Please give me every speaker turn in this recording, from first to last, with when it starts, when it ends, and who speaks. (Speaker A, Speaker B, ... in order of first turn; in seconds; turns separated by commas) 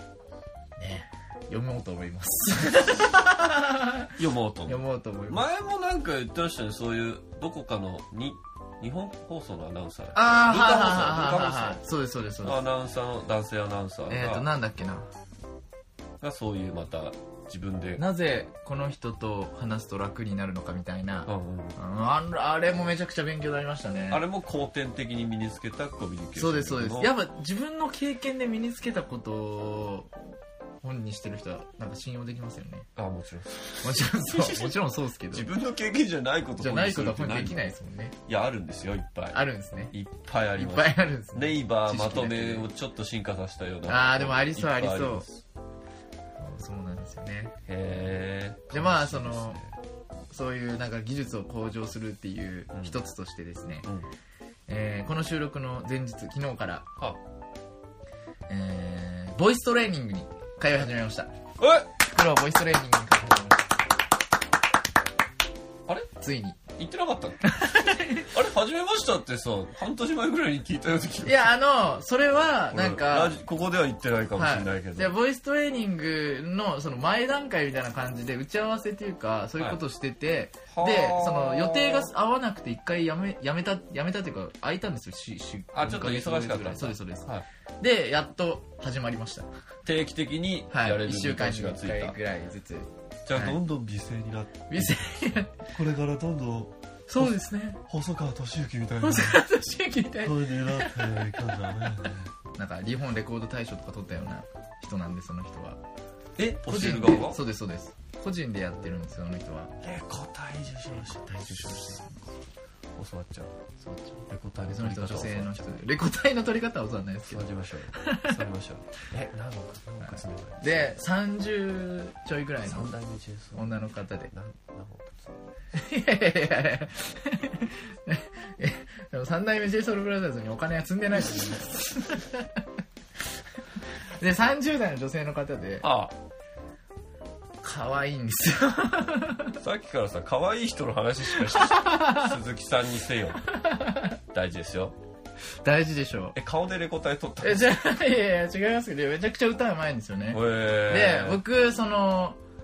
Speaker A: 0.8-5.4, Speaker B: 4.2-11.8, Speaker A: 10.2-12.6, Speaker B: 12.4-14.5, Speaker A: 14.1-15.1, Speaker B: 16.2-18.0, Speaker A: 18.0-24.2, Speaker B: 21.3-21.8, Speaker B: 24.1-27.1, Speaker A: 26.4-30.1, Speaker A: 30.8-32.9, Speaker B: 33.0-34.8, Speaker A: 33.8-35.5, Speaker B: 35.3-37.6, Speaker A: 36.6-38.1, Speaker B: 38.3-39.4, Speaker A: 39.3-39.9, Speaker B: 39.9-45.4, Speaker A: 40.6-42.7, Speaker A: 43.9-45.2, Speaker A: 46.4-47.6, Speaker B: 47.7-49.7, Speaker A: 48.7-49.6, Speaker A: 50.3-53.9, Speaker A: 54.7-56.9, Speaker A: 58.5-61.3, Speaker B: 61.6-61.9, Speaker A: 62.0-63.6, Speaker A: 66.2-66.6, Speaker B: 66.8-71.5, Speaker A: 67.5-68.3, Speaker A: 71.2-73.3, Speaker B: 72.7-75.1, Speaker A: 74.4-87.3, Speaker B: 80.7-82.1, Speaker B: 85.7-87.5, Speaker A: 87.8-89.5, Speaker B: 89.8-92.2, Speaker A: 90.7-93.6, Speaker B: 93.3-99.4, Speaker A: 94.7-95.7, Speaker A: 97.1-97.8, Speaker A: 99.0-101.8, Speaker B: 100.2-102.3, Speaker A: 102.6-105.8, Speaker B: 106.4-107.4, Speaker A: 106.6-109.7, Speaker B: 109.8-112.3, Speaker A: 111.2-112.2, Speaker B: 113.0-113.5, Speaker A: 113.8-118.4, Speaker B: 114.3-115.9, Speaker B: 117.3-120.9, Speaker A: 120.0-122.9, Speaker B: 122.7-123.7, Speaker A: 123.5-124.3, Speaker B: 124.3-125.4, Speaker A: 125.7-132.5, Speaker B: 131.2-131.6, Speaker A: 134.2-135.8, Speaker B: 135.8-136.2, Speaker A: 137.6-139.6, Speaker B: 139.6-143.4, Speaker A: 141.3-142.3, Speaker A: 143.4-144.2, Speaker B: 144.3-144.9, Speaker A: 145.6-146.3, Speaker B: 146.3-147.7, Speaker A: 147.4-152.4, Speaker B: 150.3-151.4